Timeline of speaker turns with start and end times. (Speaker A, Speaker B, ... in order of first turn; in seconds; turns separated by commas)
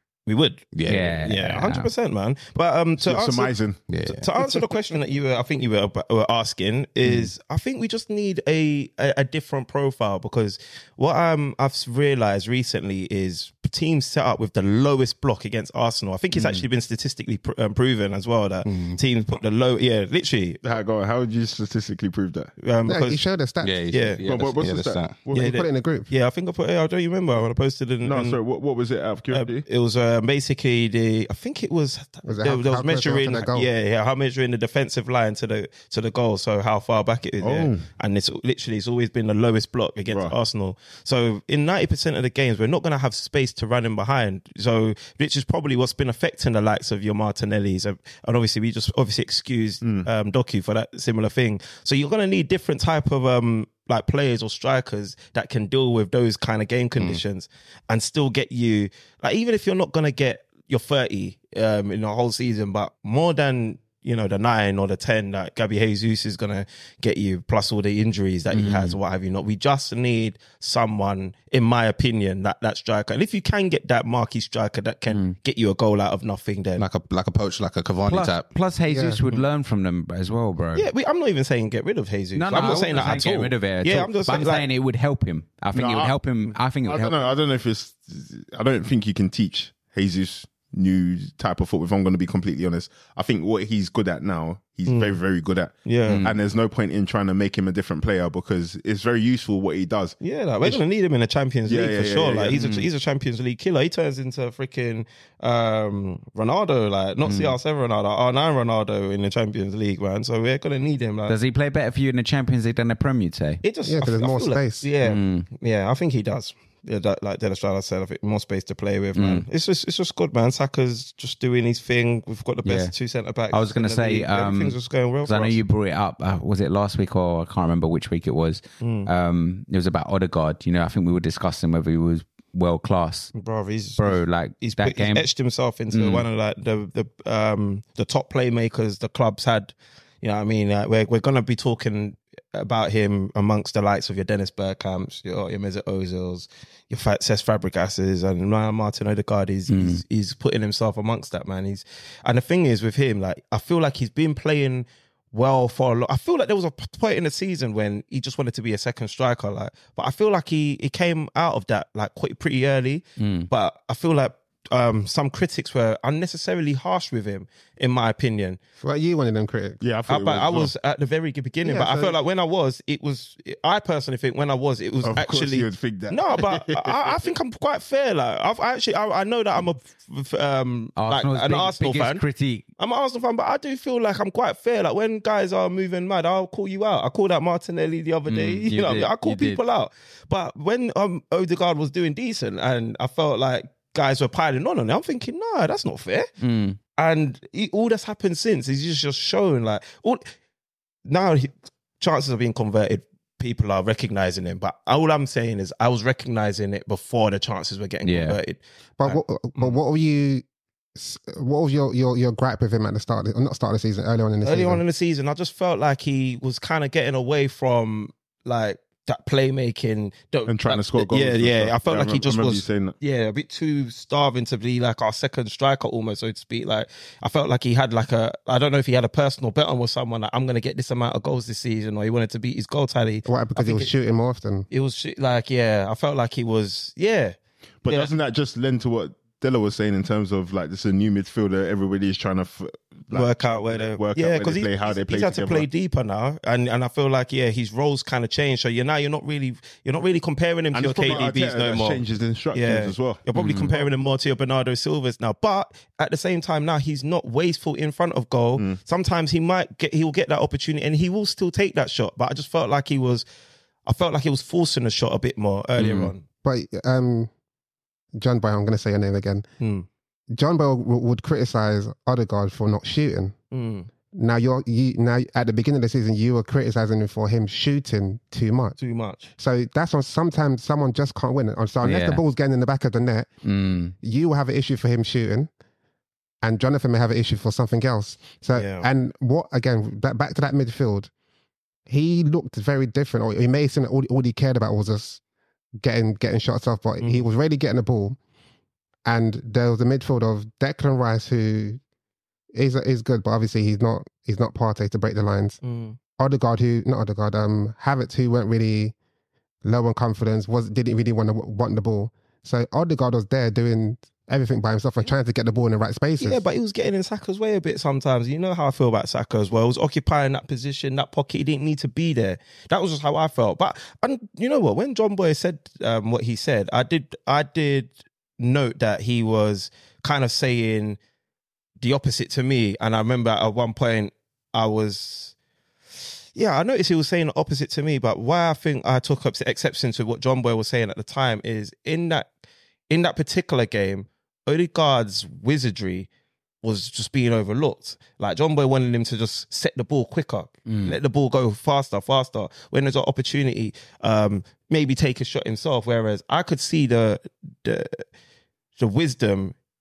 Speaker A: 0.3-20.6, Speaker B: 0.7-1.3, Speaker C: 0.8-1.9, Speaker D: 3.0-3.8, Speaker B: 3.9-4.4, Speaker B: 18.6-19.0, Speaker D: 20.6-22.5, Speaker A: 22.6-23.2, Speaker E: 22.8-23.9, Speaker B: 23.6-25.2, Speaker A: 23.9-24.2, Speaker D: 24.2-25.5, Speaker E: 25.3-26.1, Speaker A: 25.3-28.4, Speaker D: 28.0-29.6, Speaker A: 29.3-76.8, Speaker E: 32.2-33.7, Speaker D: 37.4-37.9, Speaker D: 40.1-40.4, Speaker D: 49.8-50.1, Speaker C: 68.5-69.0, Speaker C: 75.1-75.3, Speaker B: 76.8-78.5, Speaker C: 78.1-80.9, Speaker E: 78.9-79.2, Speaker A: 80.7-84.7, Speaker C: 82.3-87.2, Speaker D: 85.7-86.2, Speaker D: 86.8-100.8, Speaker A: 94.9-95.2, Speaker A: 95.8-96.2, Speaker C: 96.0-96.3, Speaker A: 100.2-111.4, Speaker D: 101.7-102.6, Speaker C: 102.5-102.9, Speaker C: 107.2-107.5, Speaker C: 111.3-113.6, Speaker A: 113.6-125.6, Speaker E: 113.8-114.8, Speaker C: 115.0-115.5, Speaker C: 119.1-119.5, Speaker C: 122.6-122.9, Speaker C: 123.5-133.3, Speaker A: 128.8-129.1, Speaker A: 133.3-168.6, Speaker C: 134.0-135.2, Speaker C: 135.9-136.2, Speaker C: 149.7-150.0, Speaker C: 163.2-163.5, Speaker E: 168.8-169.8, Speaker D: 169.8-170.7, Speaker A: 170.1-182.2, Speaker E: 171.6-172.1, Speaker D: 175.0-177.0, Speaker C: 180.9-182.6, Speaker A: 182.8-196.3, Speaker C: 188.3-189.6, Speaker C: 196.4-196.8, Speaker A: 196.9-200.3, Speaker A: 201.1-209.7, Speaker C: 208.0-208.4, Speaker E: 209.0-210.4, Speaker E: 211.0-214.8, Speaker A: 214.4-233.9, Speaker D: 220.5-222.9, Speaker E: 233.2-234.7, Speaker A: 234.7-238.1, Speaker D: 237.8-245.7, Speaker A: 243.1-263.2, Speaker D: 250.7-253.2, Speaker C: 253.3-253.7, Speaker A: 263.8-266.2, Speaker C: 265.8-266.1, Speaker E: 266.4-267.3, Speaker E: 268.1-269.4, Speaker A: 269.6-269.9, Speaker E: 270.3-273.4, Speaker A: 273.5-273.9, Speaker E: 274.1-278.8, Speaker A: 278.8-279.3, Speaker E: 279.4-283.3, Speaker C: 281.8-282.2, Speaker C: 283.4-283.9, Speaker E: 284.0-285.5, Speaker E: 286.4-291.1, Speaker A: 288.5-288.9, Speaker E: 291.9-295.2, Speaker E: 295.8-298.2, Speaker A: 297.0-297.2, Speaker E: 299.1-301.8, Speaker E: 302.5-305.6, Speaker A: 305.6-306.0, Speaker E: 306.2-308.9, Speaker E: 309.6-316.4, Speaker A: 316.2-331.0, Speaker A: 331.8-335.3, Speaker A: 336.3-342.3, Speaker A: 342.9-346.1, Speaker A: 346.6-358.0, Speaker C: 350.7-351.0, Speaker A: 358.8-359.5